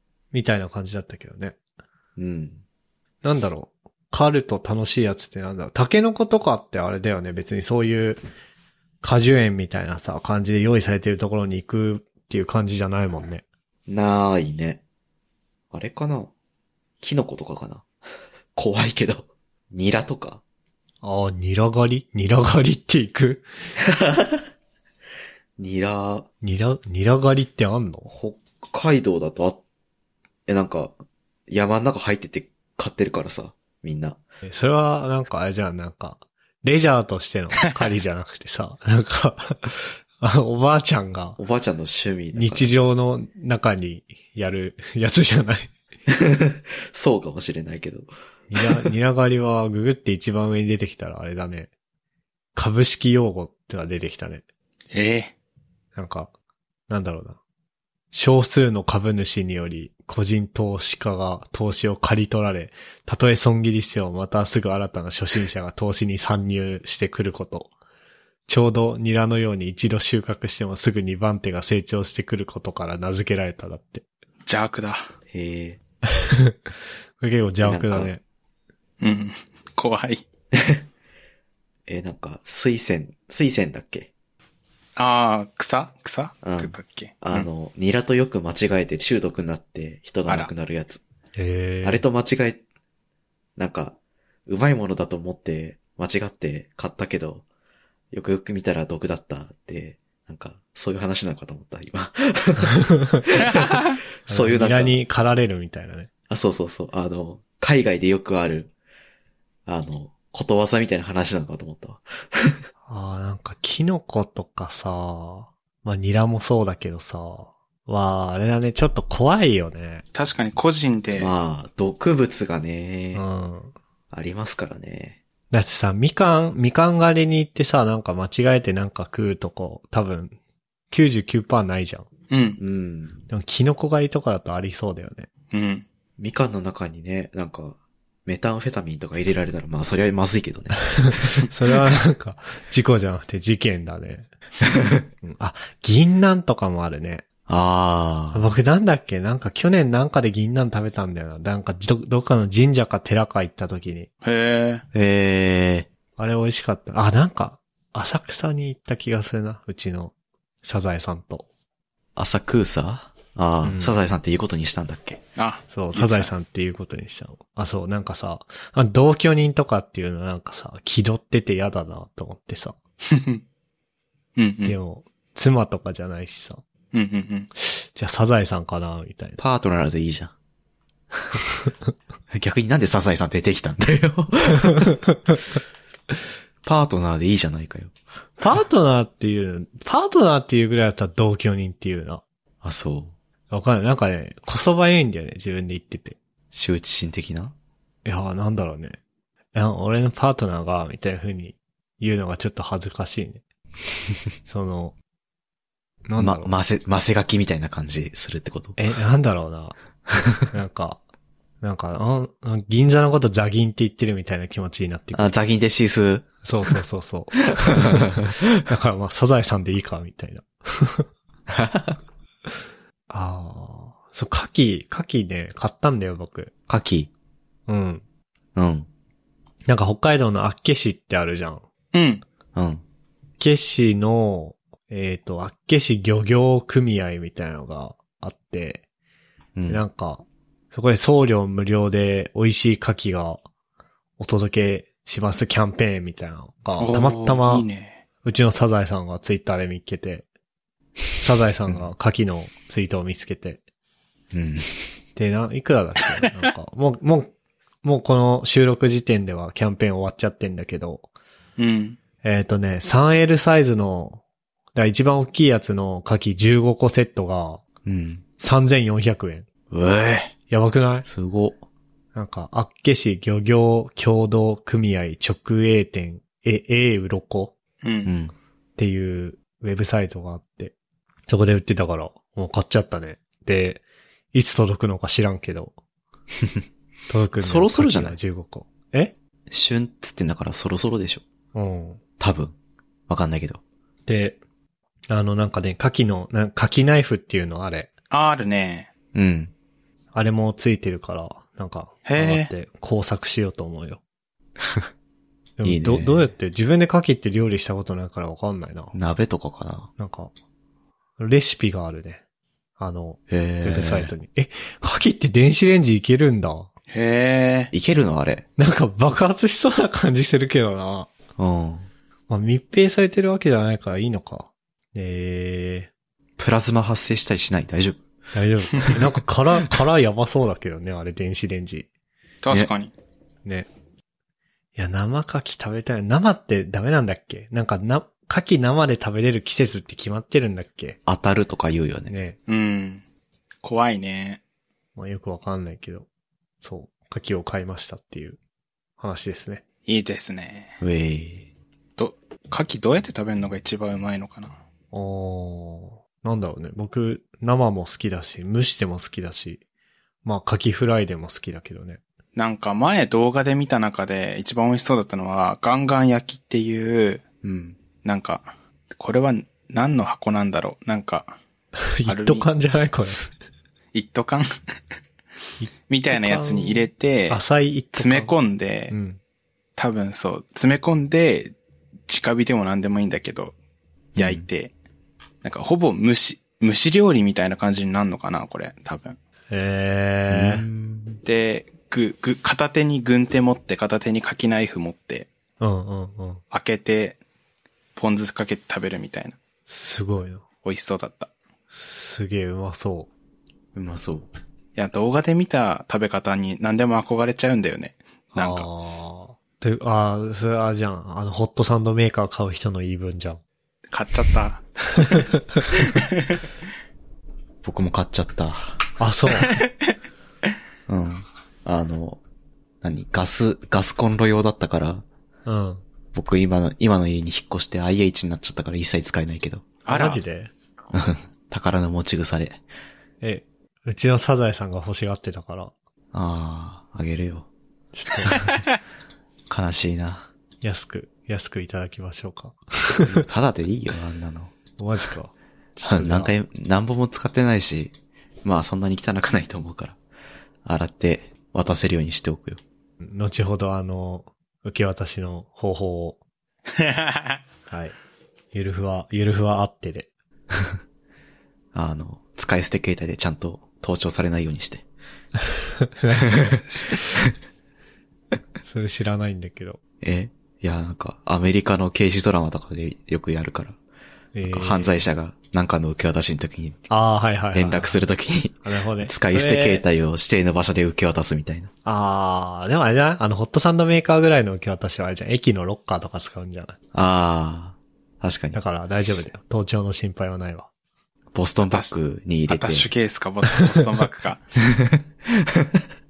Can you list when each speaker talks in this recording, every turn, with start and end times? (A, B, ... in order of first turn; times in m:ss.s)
0:00.3-0:01.6 A
0:02.2-0:02.6 B
0:03.2-0:08.2 A
0:09.0-0:13.4 A
0:13.9-0:14.8 B
0:15.7-0:16.3 B
0:17.0-0:17.9 B
0:18.6-0:20.4 B
0:21.0-0:23.5 A
0:23.8-0:24.4 B
0:25.6-0:26.3 B
0:26.4-0:28.1 A
0:28.1-0:29.6 B
0:30.5-0:31.0 B
0:31.5-0:34.2 B
0:34.4-0:41.4 A
0:41.4-0:42.7 B
0:42.3-0:45.7 A
0:46.1-0:48.1 B
0:48.5-0:51.7 A
0:52.6-0:54.4 A
0:54.9-0:55.3 C
0:56.0-0:56.3 A
0:56.9-0:57.4 A
0:58.1-1:07.7 A
1:08.5-1:14.0 A
1:14.5-1:15.0 C
1:15.3-1:15.8 B
1:16.1-1:16.6 A
1:17.2-1:18.2 A
1:17.6-1:18.1 B
1:19.0-1:20.2 C
1:20.5-1:20.8 B
1:21.9-1:24.1 B
1:25.0-1:27.5 C
1:26.4-1:31.0 B
1:31.4-1:32.0 A
1:31.8-1:32.6 B
1:33.6-1:34.0 B
1:34.5-1:37.4 B
1:38.1-1:45.0 B
1:42.9-1:43.2 A
1:43.6-1:44.0 C
1:44.3-1:46.1 A
1:46.3-1:48.7 B
1:49.7-1:52.6 B
1:52.9-2:00.0 A
2:00.1-2:01.3 C
2:01.2-2:03.2 B
2:03.1-2:03.8 A
2:04.1-2:05.2 B
2:05.5-2:10.4 A
2:10.9-2:12.1 A
2:12.3-2:12.6 C
2:12.6-2:13.2 B
2:13.3-2:15.3 A
2:15.5-2:15.8 C
2:16.2-2:21.2 B
2:21.0-2:24.3 A
2:25.2-2:27.3 A
2:27.5-2:28.5 B
2:28.3-2:34.1 A
2:34.2-2:34.8 C
2:34.9-2:35.9 B
2:36.2-2:41.5 A
2:42.2-2:45.2 B
2:43.6-2:44.0 A
2:45.4-2:46.3 C
2:45.7-2:52.8 A
2:53.1-2:53.4 C
2:54.4-2:54.8 C
2:54.6-2:56.6 A
2:56.9-2:57.5 C
2:57.6-2:59.4 A
2:59.4-3:00.3 B
3:02.3-3:05.0 B
3:06.6-3:07.9 B
3:08.4-3:12.2 A
3:12.6-3:13.1 B
3:13.5-3:16.2 A
3:16.5-3:17.5 B
3:18.0-3:19.0 A
3:19.5-3:23.4 A
3:24.5-3:25.0 A
3:26.1-3:26.5 A
3:26.2-3:28.8 B
3:28.8-3:29.8 A
3:30.5-3:31.0 A
3:31.6-3:35.4 A
3:35.1-3:36.3 B
3:36.4-3:41.1 A
3:37.6-3:38.2 B
3:41.5-3:42.0 B
3:43.1-3:46.5 A
3:46.7-3:47.1 B
3:47.7-3:48.0 A
3:48.6-3:48.9 B
3:49.7-3:51.6 A
3:51.9-3:52.2 C
3:52.6-3:52.8 B
3:53.4-3:58.8 A
3:59.6-3:59.8 B
3:59.7-4:03.4 A
4:04.2-4:07.7 A
4:06.8-4:08.0 C
4:08.2-4:10.3 A
4:11.2-4:13.6 A
4:14.3-4:14.8 B
4:15.2-4:21.1 A
4:21.6-4:22.0 C
4:22.2-4:24.2 A
4:24.8-4:27.6 A
4:27.8-4:28.2 B
4:28.4-4:29.5 A
4:29.7-4:30.3 B
4:30.5-4:31.1 A
4:31.0-4:31.6 B
4:32.2-4:37.6 A
4:37.8-4:38.1 C
4:38.0-4:38.3 B
4:38.8-4:40.7 A
4:41.3-4:45.8 A
4:47.1-4:49.1 A
4:47.4-4:48.2 B
4:49.5-4:51.2 B
4:51.5-4:52.0 A
4:52.2-4:52.6 B
4:53.1-4:53.6 B
4:54.1-4:54.4 A
4:55.1-4:57.9 A
4:58.1-4:58.9 C
4:59.1-4:59.5 B
5:00.1-5:04.0 A
5:02.1-5:02.5 C
5:05.6-5:08.9 A
5:05.6-5:06.3 B
5:08.9-5:09.9 B
5:10.0-5:10.3 A
5:11.2-5:12.2 A
5:12.8-5:16.7 A
5:13.3-5:14.1 B
5:16.9-5:17.7 C
5:17.7-5:18.4 B
5:18.6-5:21.1 A
5:21.4-5:21.9 B
5:22.3-5:25.9 A
5:26.4-5:28.0 B
5:28.3-5:31.9 A
5:32.4-5:32.9 C
5:34.8-5:41.0 A
5:41.1-5:42.1 B
5:42.1-5:42.4 A
5:42.5-5:43.0 C
5:43.6-5:44.4 C
5:45.0-5:46.1 A
5:46.6-5:48.4 A
5:49.0-5:49.6 A
5:49.9-5:50.8 C
5:50.8-5:51.5 B
5:52.0-5:54.6 C
5:54.9-5:59.6 A
6:00.2-6:02.0 A
6:02.4-6:07.2 C
6:07.4-6:07.8 B
6:08.0-6:11.4 C
6:12.0-6:13.3 A
6:12.1-6:12.5 C
6:13.9-6:14.5 C
6:15.6-6:18.3 A
6:15.9-6:17.4 C
6:18.0-6:18.9 C
6:18.9-6:19.2 A
6:19.8-6:21.5 C
6:22.1-6:23.6 C
6:24.2-6:24.5 B
6:24.2-6:24.7 C
6:25.4-6:29.2 C
6:29.5-6:30.6 A
6:30.3-6:31.2 B
6:31.2-6:35.3 C
6:35.6-6:36.4 A
6:36.5-6:37.2 C
6:38.0-6:39.4 C
6:39.7-6:40.4 A
6:40.6-6:41.3 C
6:41.7-6:43.1 A
6:43.8-6:44.3 B
6:44.8-6:48.7 C
6:48.4-6:53.4 A
6:53.9-6:55.2 C
6:55.0-6:55.4 A
6:55.8-6:56.0 C
6:57.6-6:58.8 B
6:59.0-6:59.6 A
6:59.4-6:59.7 C
7:00.9-7:02.2 B
7:02.8-7:05.0 B
7:05.5-7:05.8 A
7:06.1-7:09.7 B
7:09.8-7:10.2 C
7:09.9-7:10.5 A
7:10.9-7:12.6 B
7:13.2-7:15.7 A
7:16.1-7:17.5 B
7:17.9-7:18.4 A
7:18.4-7:18.6 C
7:19.5-7:20.3 B
7:20.6-7:23.2 A
7:23.0-7:24.5 B
7:24.8-7:26.3 A
7:25.8-7:30.0 B
7:30.6-7:32.6 B
7:33.0-7:36.2 A
7:36.8-7:37.4 C
7:37.7-7:38.0 A
7:38.5-7:40.1 A
7:41.7-7:44.8 B
7:45.8-7:47.0 A
7:46.3-7:46.6 B
7:48.6-7:49.8 A
7:50.0-7:53.8 B
7:54.3-7:55.0 A
7:54.4-7:56.9 B
7:56.9-7:58.0 A
7:57.5-8:01.7 B
7:58.6-7:59.8 A
8:01.8-8:06.8 A
8:06.9-8:09.3 B
8:08.5-8:10.7 A
8:11.3-8:12.9 B
8:12.5-8:14.4 C
8:14.8-8:15.8 B